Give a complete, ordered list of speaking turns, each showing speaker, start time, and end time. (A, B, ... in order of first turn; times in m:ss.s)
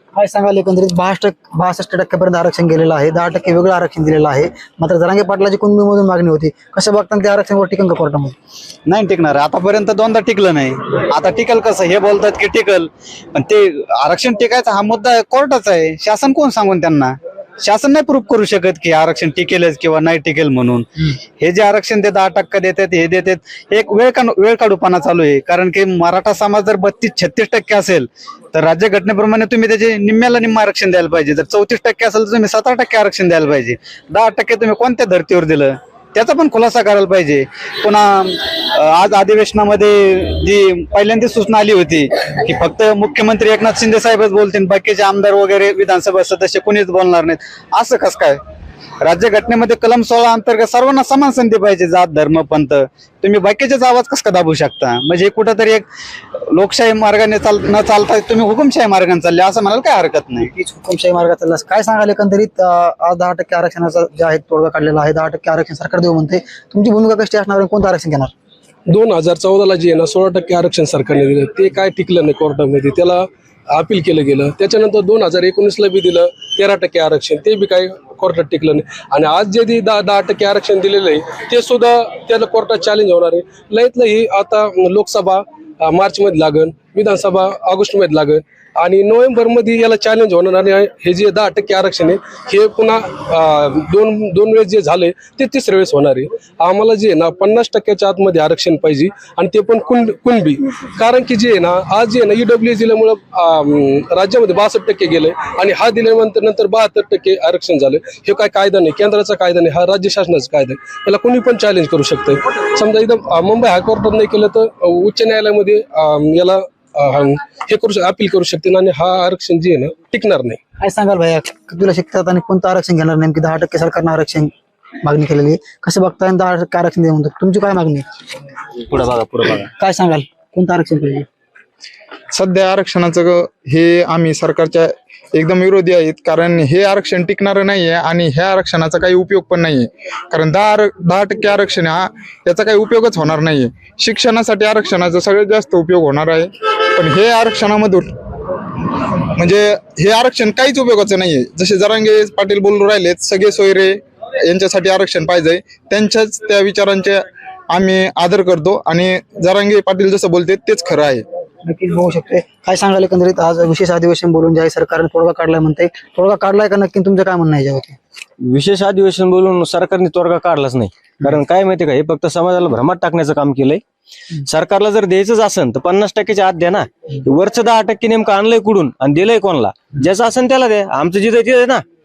0:00.1-0:08.3 A
0:08.9-0:48.4 B
0:49.0-0:55.8 B
0:56.5-1:00.5 B
1:00.4-1:08.3 A
1:08.9-2:00.6 C
2:00.8-2:04.5 A
2:05.0-2:08.0 A
2:09.7-2:11.2 A
2:12.3-2:28.1 D
2:29.3-2:41.2 D
2:41.6-2:48.0 A
2:48.4-2:53.8 E
2:54.4-3:01.8 E